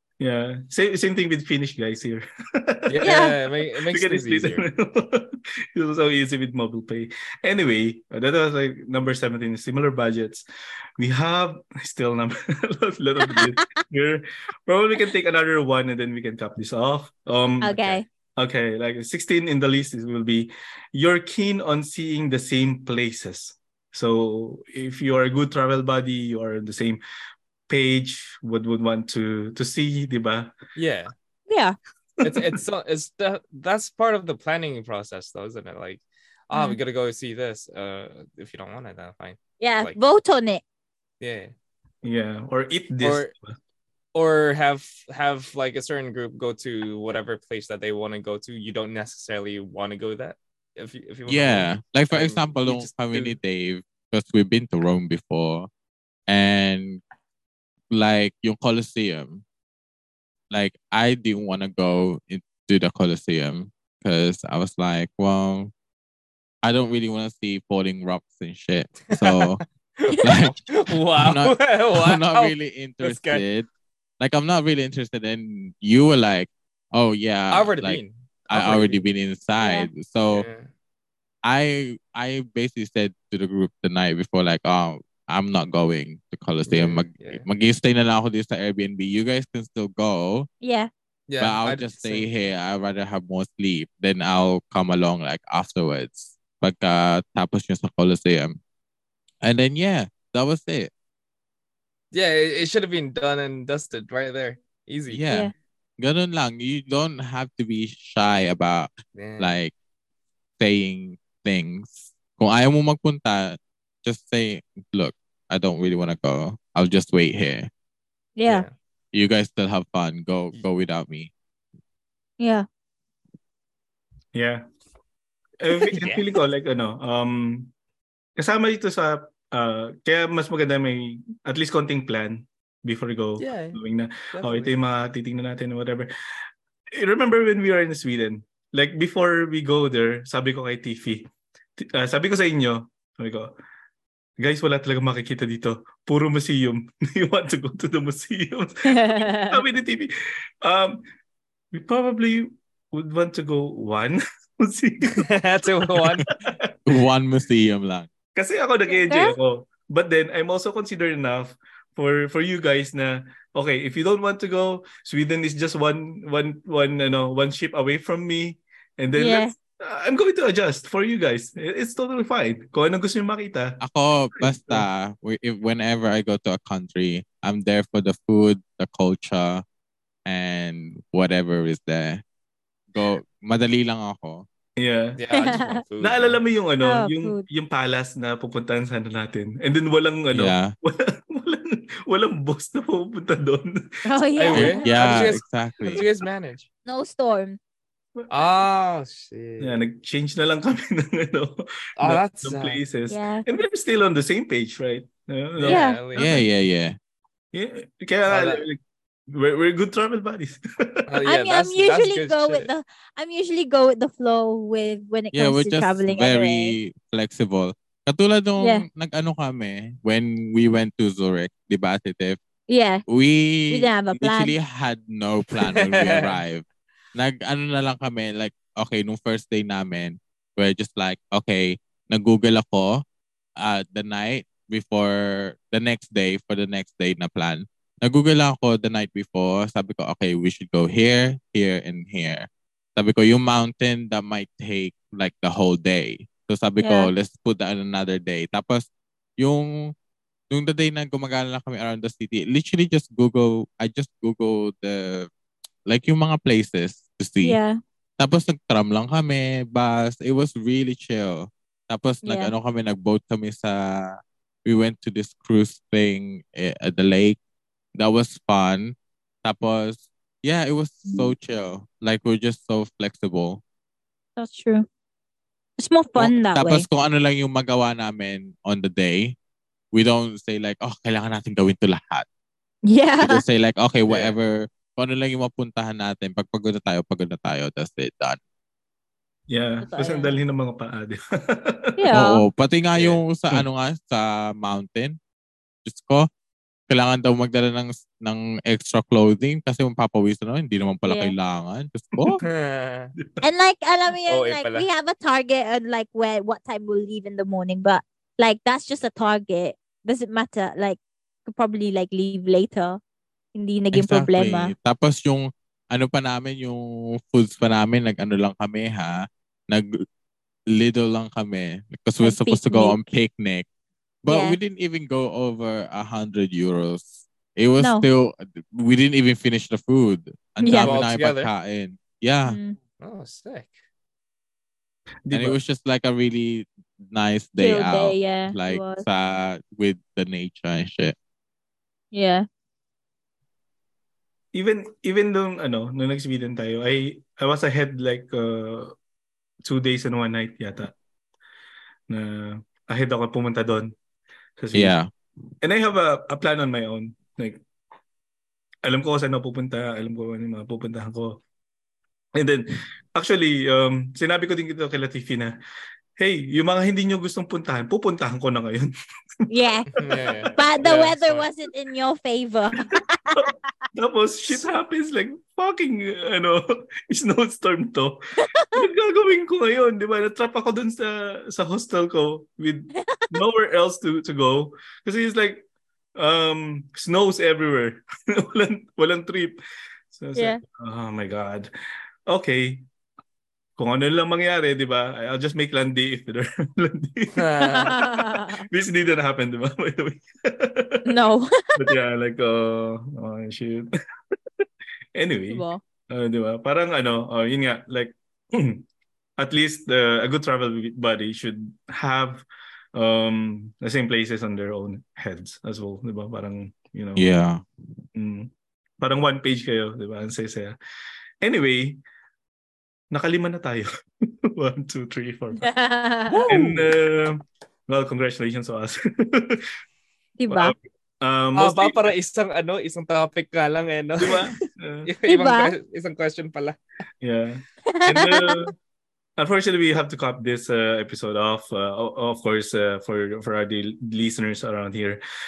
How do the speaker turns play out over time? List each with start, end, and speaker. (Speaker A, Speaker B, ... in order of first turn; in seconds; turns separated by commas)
Speaker A: 0.2-3.2, Speaker B: 2.9-4.6, Speaker C: 3.0-3.4, Speaker A: 3.9-10.4, Speaker A: 11.0-27.0, Speaker C: 17.6-18.1, Speaker A: 27.7-30.6, Speaker B: 30.8-31.1, Speaker C: 31.5-31.8, Speaker A: 32.2-32.6, Speaker B: 32.2-40.0, Speaker C: 36.5-36.8, Speaker C: 39.6-40.6, Speaker B: 41.2-41.5, Speaker A: 42.0-43.5, Speaker B: 43.0-43.3, Speaker B: 44.1-53.4, Speaker D: 51.3-55.7, Speaker D: 56.3-57.0, Speaker D: 57.9-59.4, Speaker D: 60.5-65.7, Speaker D: 66.6-69.6, Speaker B: 69.1-73.4, Speaker D: 70.2-70.5, Speaker D: 71.2-73.7, Speaker D: 74.2-80.5, Speaker B: 77.5-79.0, Speaker C: 79.6-79.9, Speaker B: 80.3-80.7, Speaker D: 81.4-90.5, Speaker B: 86.7-87.5, Speaker C: 90.6-90.9, Speaker B: 91.3-92.3, Speaker D: 91.4-98.6, Speaker D: 99.4-100.9, Speaker B: 102.1-105.3, Speaker D: 105.1-109.7, Speaker B: 109.2-109.6, Speaker D: 110.6-117.7, Speaker C: 118.4-118.7, Speaker B: 118.5-118.7, Speaker D: 119.1-121.3, Speaker C: 122.4-122.7, Speaker A: 124.3-124.6, Speaker A: 125.6-127.7, Speaker B: 125.7-126.3, Speaker A: 128.4-136.1, Speaker B: 133.4-133.8, Speaker B: 134.3-134.7, Speaker A: 137.0-143.5, Speaker A: 144.4-150.1, Speaker C: 148.9-149.6, Speaker A: 150.6-151.0, Speaker A: 151.7-155.3, Speaker B: 155.2-156.3, Speaker A: 155.9-156.6, Speaker D: 156.9-158.1, Speaker A: 158.3-173.8, Speaker C: 158.9-159.4, Speaker C: 169.2-169.5, Speaker D: 173.8-179.6, Speaker A: 174.4-174.9, Speaker D: 180.3-182.2, Speaker D: 182.9-184.4, Speaker A: 184.8-185.2, Speaker B: 185.2-186.4, Speaker C: 185.4-185.8, Speaker A: 186.0-193.9, Speaker C: 186.8-187.4, Speaker D: 190.3-190.7, Speaker C: 194.1-195.3, Speaker B: 194.4-196.7, Speaker D: 194.5-196.1, Speaker C: 196.9-197.6, Speaker A: 198.2-198.5, Speaker B: 198.3-199.8, Speaker A: 199.6-206.3, Speaker B: 202.0-202.8, Speaker C: 203.1-203.5, Speaker B: 205.6-206.4, Speaker C: 205.7-206.1, Speaker D: 206.2-207.0, Speaker A: 207.5-211.1, Speaker B: 208.3-208.6, Speaker B: 211.1-212.7, Speaker C: 211.3-216.8, Speaker D: 215.3-222.4, Speaker C: 218.6-218.9, Speaker C: 222.7-223.0, Speaker D: 223.1-233.0, Speaker C: 223.7-224.6, Speaker B: 225.6-226.4, Speaker D: 233.6-248.9, Speaker C: 246.8-247.1, Speaker D: 249.4-249.9, Speaker D: 250.5-255.3, Speaker D: 255.9-257.6, Speaker C: 257.4-257.8, Speaker D: 258.2-267.4, Speaker C: 262.2-262.5, Speaker D: 267.9-273.6, Speaker C: 274.4-274.9, Speaker C: 275.8-276.9, Speaker D: 276.2-279.4, Speaker D: 279.9-282.3, Speaker C: 282.9-283.4, Speaker D: 283.2-288.4, Speaker B: 284.1-284.4, Speaker A: 289.5-292.1, Speaker C: 289.8-290.4, Speaker C: 292.0-292.4, Speaker D: 292.1-295.2, Speaker B: 292.9-293.2, Speaker D: 295.9-296.3, Speaker D: 296.9-302.4, Speaker C: 301.0-301.3, Speaker B: 302.4-303.1, Speaker C: 303.4-313.0, Speaker B: 304.3-304.9, Speaker C: 313.5-314.7, Speaker D: 313.9-320.1, Speaker D: 320.7-323.7, Speaker C: 322.2-323.0, Speaker D: 324.2-332.6, Speaker C: 324.3-324.6, Speaker C: 327.8-328.1, Speaker C: 330.6-331.0, Speaker B: 330.8-331.5, Speaker C: 332.5-332.8, Speaker B: 333.0-333.8, Speaker A: 335.3-335.6, Speaker D: 335.3-341.1, Speaker C: 337.6-339.0, Speaker C: 342.1-342.5, Speaker A: 344.5-348.9, Speaker A: 349.7-350.9, Speaker A: 352.1-353.9, Speaker A: 354.6-354.9, Speaker D: 354.7-355.1, Speaker A: 355.6-357.6, Speaker A: 358.9-361.4, Speaker A: 362.4-365.5, Speaker A: 366.2-368.9, Speaker C: 369.5-369.9, Speaker B: 369.9-371.5, Speaker A: 370.0-370.6, Speaker C: 370.5-373.5, Speaker A: 372.9-378.2, Speaker C: 378.4-378.8, Speaker A: 378.8-389.6, Speaker C: 383.0-383.3, Speaker A: 390.1-391.7, Speaker C: 390.4-390.6, Speaker A: 392.3-392.8, Speaker A: 393.8-401.1, Speaker B: 397.4-398.0, Speaker C: 397.6-398.7, Speaker C: 401.1-401.9, Speaker A: 401.8-403.9, Speaker A: 405.1-408.8, Speaker C: 405.5-405.8, Speaker A: 409.4-417.3, Speaker D: 417.2-417.6, Speaker A: 418.1-418.5, Speaker A: 419.0-420.8, Speaker A: 421.4-422.0, Speaker A: 423.1-423.9, Speaker A: 424.5-425.7, Speaker C: 425.6-426.5, Speaker A: 426.5-429.7, Speaker C: 430.4-430.7, Speaker A: 430.5-432.1, Speaker B: 431.6-436.8, Speaker A: 434.2-435.1, Speaker C: 435.3-435.7, Speaker A: 437.2-438.7, Speaker C: 437.9-438.6, Speaker A: 439.4-445.2